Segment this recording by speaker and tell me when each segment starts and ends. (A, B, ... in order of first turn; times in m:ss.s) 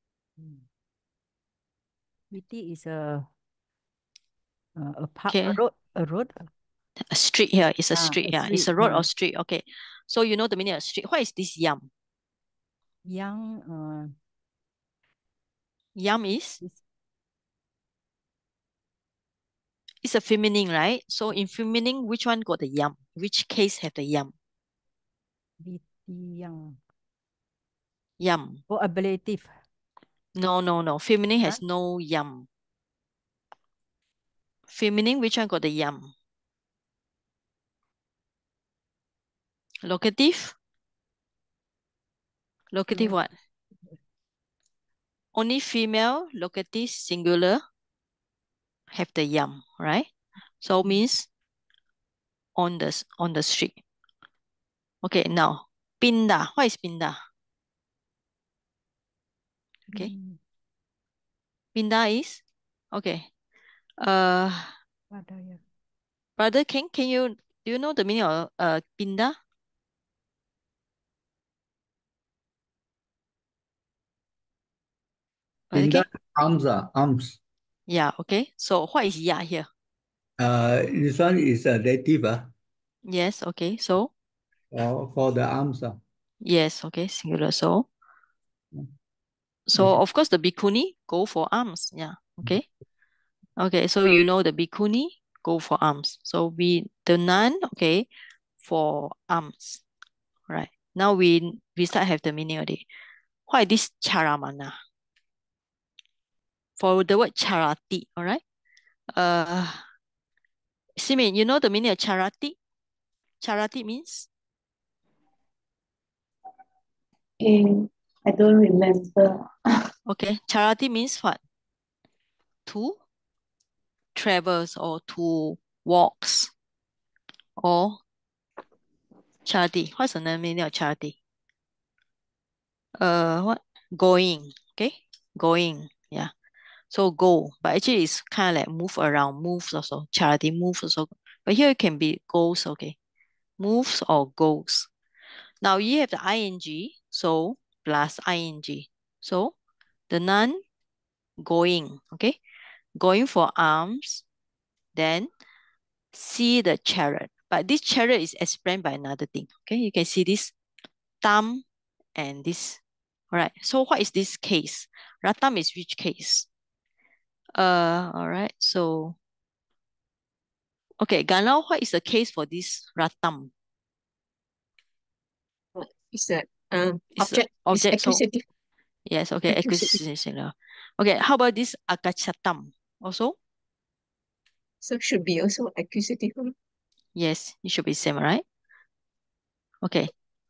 0:00.4-0:00.6 A
0:02.3-0:03.3 A
0:04.8-0:06.5 A
0:05.3-0:05.6 B
0:07.1-0:11.9 B
0:07.9-0:09.1 A
0:13.0-0:14.1 A
0:16.0-0:16.6 B
0:20.0-0:24.3 B
0:25.6-0:26.8 A
0:28.2-0:28.6 B
0:28.7-0:29.5 A
0:30.4-0:32.4 B
0:34.7-0:36.1 B
0:39.8-0:40.6 B
0:42.7-0:43.3 B
0:45.3-0:47.6 B
0:48.9-0:50.1 B
0:50.6-0:51.3 B
0:52.6-0:53.8 B
0:55.0-0:57.2 B
0:59.9-1:00.4 A
1:01.7-1:02.4 B
1:02.9-1:03.3 B
1:04.0-1:04.7 B
1:05.1-1:05.6 A
1:06.4-1:09.4 B
1:15.7-1:16.0 B
1:15.7-1:17.4 C
1:17.9-1:19.7 B
1:20.4-1:22.5 C
1:23.1-1:24.1 B
1:24.7-1:26.0 C
1:26.4-1:27.8 B
1:29.7-1:32.6 B
1:33.6-1:38.0 B
1:38.6-1:39.8 B
1:40.5-1:42.8 B
1:43.5-1:44.7 B
1:46.8-1:48.4 B
1:49.1-1:49.8 B
1:51.0-1:52.6 B
1:53.4-1:54.3 B
1:57.4-1:59.4 D
2:00.1-2:01.4 B
2:02.7-2:03.0 B
2:04.1-2:06.5 B
2:07.6-2:08.0 B
2:09.4-2:11.2 B
2:13.0-2:16.3 B
2:16.9-2:22.9 B
2:23.6-2:24.9 B
2:25.6-2:29.5 B
2:30.1-2:30.6 B
2:31.4-2:32.4 B
2:33.0-2:34.2 B
2:34.9-2:35.3 B
2:36.1-2:40.5 B
2:41.2-2:41.6 B
2:42.2-2:42.8 B
2:43.3-2:46.4 B
2:47.6-2:49.2 B
2:51.0-2:53.5 B
2:55.8-2:58.4 E
2:57.2-2:58.2 B
2:59.1-3:03.4 B
2:59.5-3:00.0 E
3:04.8-3:06.5 E
3:07.2-3:08.4 B
3:09.8-3:10.1 B